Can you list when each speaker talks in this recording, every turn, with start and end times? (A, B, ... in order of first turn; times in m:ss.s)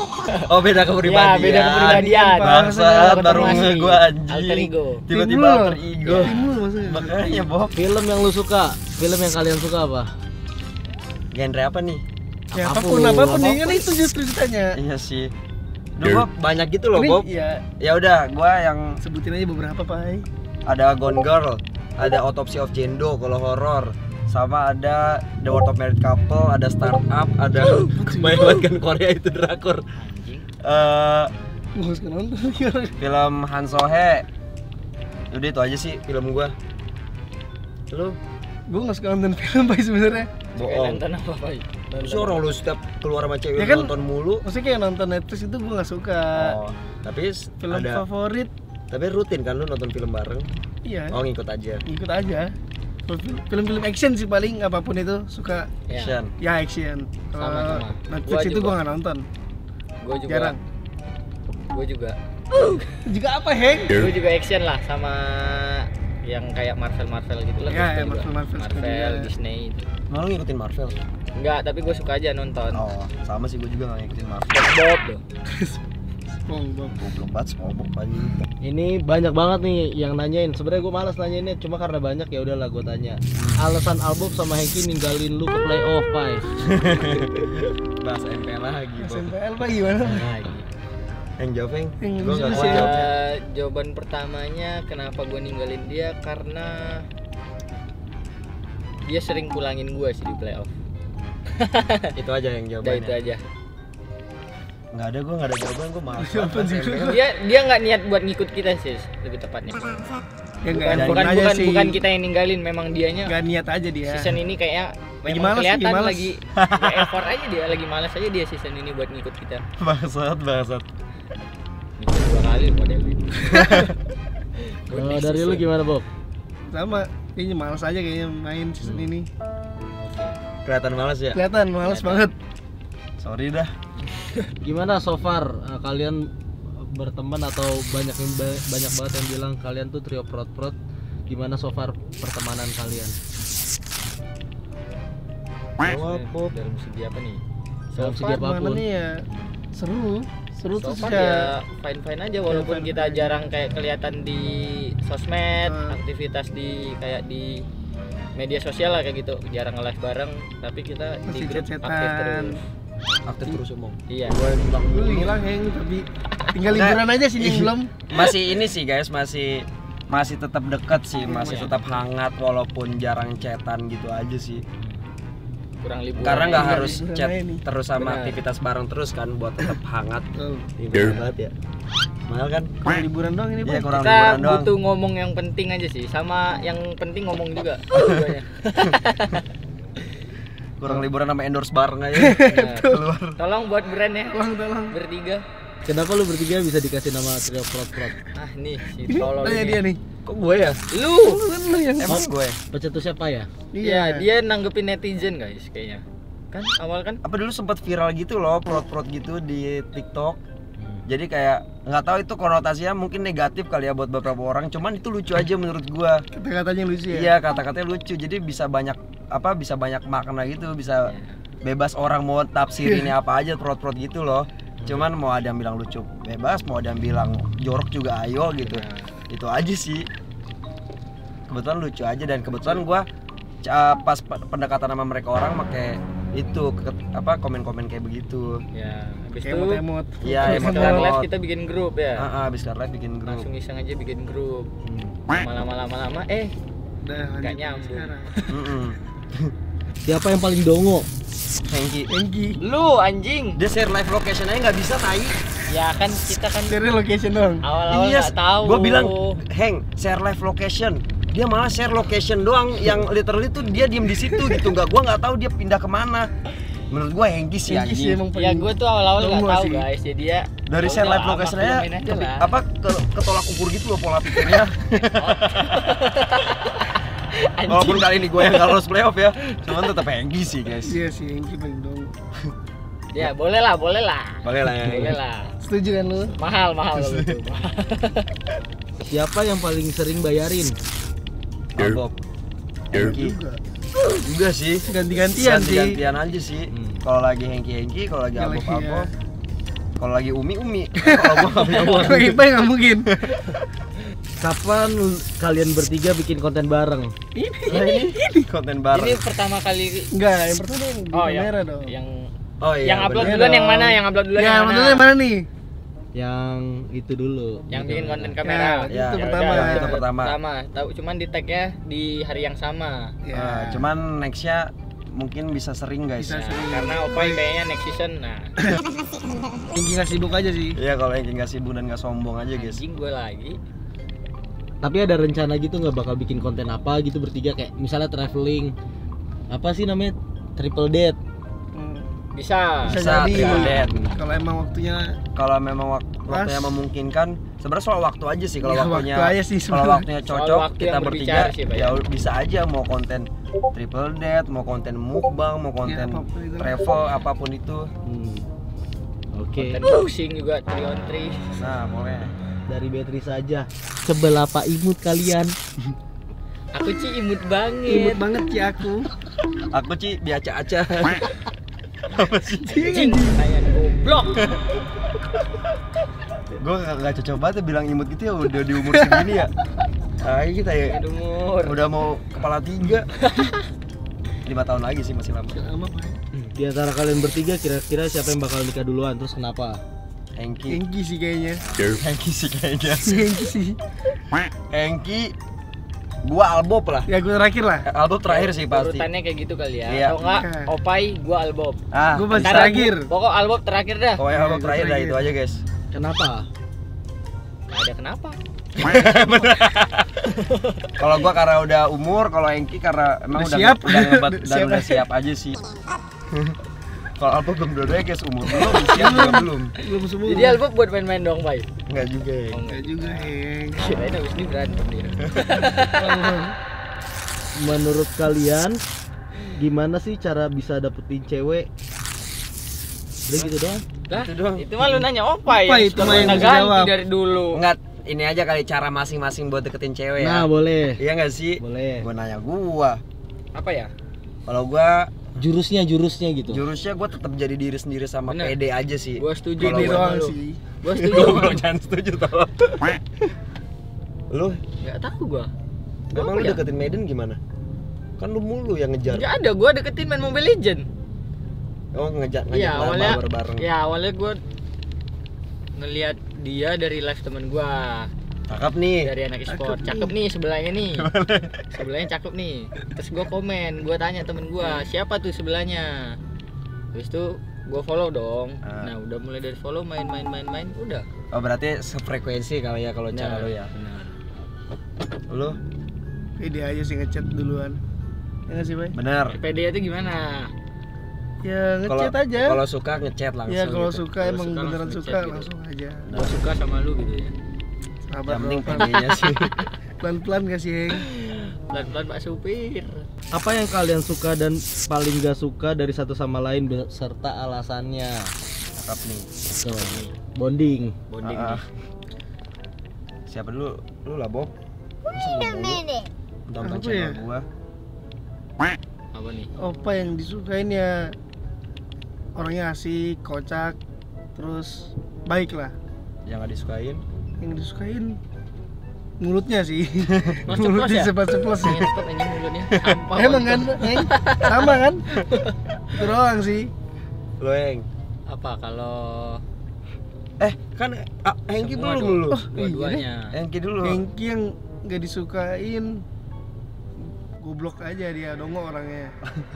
0:00.5-0:07.7 A
0:01.0-0:05.0 B
0:01.8-0:03.7 C
0:05.1-0:07.5 C
0:06.0-0:06.4 B
0:07.7-0:10.1 D
0:11.3-0:12.0 A
0:12.5-0:13.6 D
0:12.5-0:14.8 C
0:13.4-0:13.8 B
0:14.7-0:15.3 A
0:16.0-0:17.2 A
0:16.9-0:17.6 C
0:17.8-0:19.0 A
0:19.0-0:20.3 C
0:20.6-0:29.8 A
0:27.6-0:28.6 C
0:30.0-0:30.5 B
0:30.6-0:31.3 A
0:31.7-0:32.9 C
0:33.0-0:34.2 A
0:35.3-0:36.5 A
0:37.9-0:38.2 A
0:38.7-0:40.3 C
0:40.5-0:41.8 B
0:40.6-0:41.0 A
0:42.0-0:44.4 A
0:42.0-0:42.3 D
0:43.6-0:46.6 C
0:46.3-0:48.0 A
0:47.6-0:48.5 C
0:48.9-0:50.5 A
0:50.8-0:51.2 C
0:51.1-0:51.8 A
0:51.9-0:52.5 C
0:53.1-0:55.8 C
0:55.9-0:56.2 B
0:55.9-0:56.3 A
0:56.4-0:59.2 C
0:57.4-0:58.7 B
1:00.0-1:00.5 B
1:00.3-1:00.6 C
1:01.7-1:02.9 B
1:03.0-1:04.0 C
1:03.9-1:09.8 B
1:07.7-1:09.3 C
1:10.1-1:11.0 A
1:11.4-1:12.8 B
1:12.7-1:14.6 A
1:14.5-1:15.2 B
1:15.5-1:15.8 C
1:16.4-1:17.0 C
1:17.0-1:18.5 A
1:18.6-1:26.5 D
1:23.4-1:23.6 A
1:26.6-1:29.3 A
1:29.0-1:30.3 C
1:30.1-1:30.6 B
1:31.4-1:33.1 A
1:32.0-1:33.0 C
1:32.4-1:37.0 B
1:39.0-1:40.7 B
1:41.6-1:42.1 B
1:42.2-1:43.1 A
1:42.8-1:43.4 B
1:44.9-1:47.2 A
1:46.2-1:47.2 C
1:47.0-1:50.1 B
1:50.6-1:52.0 C
1:50.7-1:53.3 B
1:50.9-1:51.4 A
1:53.2-1:54.3 C
1:54.0-1:59.6 B
1:55.2-1:56.3 C
1:56.6-1:57.1 A
1:59.8-2:00.8 A
2:02.0-2:03.8 B
2:03.5-2:03.9 A
2:04.8-2:05.7 B
2:04.9-2:06.0 D
2:06.7-2:09.3 C
2:08.8-2:09.1 D
2:10.0-2:10.3 D
2:10.6-2:11.4 A
2:11.3-2:12.3 C
2:11.8-2:12.3 B
2:13.2-2:13.7 A
2:14.6-2:20.8 D
2:21.3-2:23.2 D
2:25.8-2:26.5 A
2:25.8-2:27.4 B
2:27.9-2:28.4 B
2:28.0-2:28.8 D
2:28.2-2:31.5 C
2:30.7-2:37.6 B
2:32.5-2:33.4 C
2:35.6-2:36.0 C
2:38.4-2:42.5 B
2:41.3-2:42.5 C
2:43.3-2:45.4 A
2:44.1-2:44.4 B
2:44.8-2:48.0 C
2:46.6-2:54.6 A
2:51.2-2:51.7 C
2:51.4-2:51.7 B
2:55.8-2:57.0 B
2:56.2-3:00.2 A
2:56.5-2:57.6 C
2:58.0-2:58.4 B
3:00.4-3:00.7 C
3:00.8-3:01.5 A
3:02.3-3:02.9 A
3:02.9-3:04.0 C
3:03.6-3:04.7 A
3:03.9-3:09.4 B
3:10.8-3:13.4 A
3:12.2-3:13.0 C
3:12.4-3:15.4 B
3:14.3-3:15.0 C
3:15.8-3:18.2 D
3:18.3-3:19.8 B
3:19.1-3:20.0 C
3:20.2-3:20.8 A
3:20.9-3:21.4 B
3:21.2-3:22.2 C
3:22.0-3:22.6 A
3:22.1-3:23.5 D
3:23.7-3:24.2 C
3:23.8-3:27.2 B
3:27.2-3:30.4 A
3:30.8-3:31.0 D
3:31.1-3:36.2 A
3:36.3-3:37.3 C
3:37.1-3:41.1 A
3:41.0-3:41.4 B
3:41.6-3:50.1 A
3:42.8-3:43.1 C
3:48.6-3:49.1 B
3:51.5-3:53.0 A
3:53.6-3:58.6 A
3:58.7-3:59.8 B
3:59.4-4:01.1 C
4:00.2-4:01.3 A
4:00.4-4:02.3 B
4:02.2-4:03.5 A
4:03.2-4:04.7 B
4:04.8-4:05.2 D
4:05.3-4:06.5 B
4:07.0-4:08.6 C
4:07.4-4:08.1 B
4:08.5-4:09.5 A
4:10.0-4:11.1 D
4:11.7-4:12.1 A
4:12.1-4:12.6 C
4:12.6-4:13.6 B
4:13.6-4:15.4 A
4:15.7-4:16.8 B
4:16.7-4:17.6 C
4:17.6-4:19.4 B
4:17.9-4:26.3 A
4:24.2-4:24.7 C
4:26.9-4:28.2 A
4:27.6-4:29.8 C
4:28.3-4:32.5 B
4:30.7-4:35.8 A
4:34.5-4:38.8 B
4:37.7-4:41.0 A
4:39.4-4:39.9 B
4:40.8-4:42.1 C
4:43.1-4:45.5 B
4:44.4-4:45.1 A
4:45.6-4:46.3 C
4:46.4-4:48.3 B
4:46.9-4:47.3 A
4:49.0-4:50.7 D
4:51.8-4:52.1 A
4:52.9-4:53.4 A
4:52.9-4:53.6 C
4:54.0-4:59.1 A
4:54.9-4:56.0 C
4:56.7-4:57.0 D
4:58.3-4:59.1 C
5:00.0-5:02.5 A
5:01.0-5:03.1 C
5:03.1-5:03.6 A
5:04.4-5:07.1 D
5:07.4-5:08.4 C
5:07.7-5:09.2 A
5:08.9-5:10.1 B
5:10.1-5:11.9 C
5:11.1-5:12.3 B
5:12.6-5:13.4 A
5:12.8-5:15.0 B
5:13.2-5:15.5 C
5:16.1-5:18.4 D
5:17.7-5:23.1 B
5:18.4-5:19.9 C
5:18.9-5:20.3 A
5:23.2-5:23.9 C
5:23.3-5:26.4 A
5:26.2-5:27.4 C
5:26.2-5:28.5 B
5:29.7-5:30.8 C
5:30.8-5:32.8 A
5:32.5-5:33.6 B
5:34.8-5:38.7 D
5:39.5-5:41.2 D
5:41.7-5:42.1 C
5:42.3-5:43.9 B
5:42.8-5:45.2 C
5:42.9-5:44.0 A
5:43.8-5:44.1 D
5:45.4-5:57.9 A
5:46.3-5:46.8 C
5:48.6-5:50.1 C
5:50.3-5:52.0 B
5:55.8-5:56.8 C
5:58.0-5:58.5 D
5:59.3-5:59.9 D
5:59.6-6:01.7 B
6:01.6-6:02.3 A
6:02.7-6:05.5 D
6:06.7-6:08.2 B
6:07.9-6:09.1 C
6:09.7-6:11.3 A
6:12.0-6:12.9 A
6:12.6-6:13.4 C
6:12.8-6:14.6 B
6:16.5-6:19.5 A
6:18.9-6:19.2 C
6:20.2-6:21.0 A
6:20.8-6:21.8 B
6:21.6-6:23.1 A
6:23.2-6:23.6 B
6:24.4-6:25.6 A
6:25.5-6:26.2 C
6:26.5-6:29.8 D
6:30.4-6:30.8 A
6:30.7-6:31.6 C
6:31.7-6:33.3 A
6:33.0-6:33.8 C
6:34.7-6:35.3 A
6:36.2-6:37.1 A
6:37.1-6:37.8 C
6:37.8-6:39.1 A
6:38.3-6:41.8 B
6:39.9-6:40.2 A
6:40.2-6:40.7 C
6:41.9-6:42.9 A
6:42.1-6:43.1 C
6:42.3-6:44.2 B
6:44.2-6:45.6 A
6:44.3-6:45.3 C
6:45.9-6:46.5 D
6:47.7-6:48.4 B
6:48.8-6:50.2 A
6:50.4-6:50.9 B
6:51.0-6:55.6 A
6:53.4-6:55.0 C
6:56.3-6:56.6 A
6:57.2-6:59.7 A
6:58.9-7:00.6 C
7:00.2-7:01.7 B
7:01.9-7:02.6 A
7:02.5-7:06.3 B
7:02.7-7:03.9 C
7:05.9-7:06.5 C
7:07.6-7:08.8 D
7:09.6-7:11.7 D
7:13.3-7:13.8 D
7:14.1-7:17.6 B
7:14.1-7:15.0 A
7:15.5-7:16.9 C
7:16.1-7:16.4 D
7:17.5-7:23.0 A
7:20.2-7:21.0 D
7:21.6-7:22.0 D
7:23.5-7:23.9 B
7:24.4-7:25.3 A
7:25.4-7:26.6 D
7:26.5-7:30.1 A
7:28.3-7:28.6 B
7:29.2-7:31.6 B
7:29.6-7:30.6 C
7:30.9-7:33.0 A
7:34.3-7:34.6 A
7:34.8-7:35.5 B
7:36.1-7:37.4 A
7:36.1-7:36.6 B
7:38.2-7:39.3 A
7:39.1-7:40.8 B
7:41.9-7:43.7 A
7:42.5-7:44.4 B
7:45.7-7:48.1 B
7:48.5-7:49.1 A
7:49.0-7:51.1 B
7:49.5-7:50.1 C
7:50.9-7:51.7 A
7:51.7-7:56.2 B
7:56.9-8:01.0 B
7:58.6-7:58.9 A
8:01.3-8:03.7 A
8:03.1-8:04.1 B
8:05.3-8:05.6 A
8:06.4-8:07.8 C
8:08.5-8:09.0 C
8:08.9-8:09.4 A
8:09.2-8:10.5 B
8:11.4-8:12.6 C
8:11.9-8:15.0 A
8:13.5-8:16.1 C
8:14.9-8:15.5 B
8:16.1-8:16.4 A
8:16.1-8:17.3 B
8:18.1-8:19.0 C
8:18.3-8:19.5 A
8:18.7-8:19.7 B
8:20.0-8:21.0 C
8:20.9-8:23.1 B
8:23.3-8:28.3 D
8:28.8-8:29.3 A
8:29.6-8:31.0 D
8:29.7-8:30.1 B
8:31.1-8:31.6 B
8:31.2-8:31.6 A
8:33.3-8:34.5 A
8:35.1-8:35.9 A
8:36.5-8:37.4 A
8:36.6-8:37.2 C
8:39.1-8:39.5 B
8:39.6-8:41.1 C
8:42.4-8:43.8 C
8:44.4-8:45.7 C
8:46.2-8:47.0 A
8:47.4-8:48.2 C
8:49.2-8:51.8 C
8:50.1-8:50.5 A
8:50.5-8:54.7 B
8:52.7-8:53.0 A
8:53.1-8:55.0 C
8:55.2-8:55.6 B
8:55.9-8:56.7 C
8:57.4-8:57.9 A
8:58.3-8:59.4 B
9:00.4-9:02.4 A
9:01.6-9:03.3 B
9:02.3-9:03.0 C
9:03.3-9:04.0 A
9:03.8-9:06.0 C
9:07.4-9:09.1 C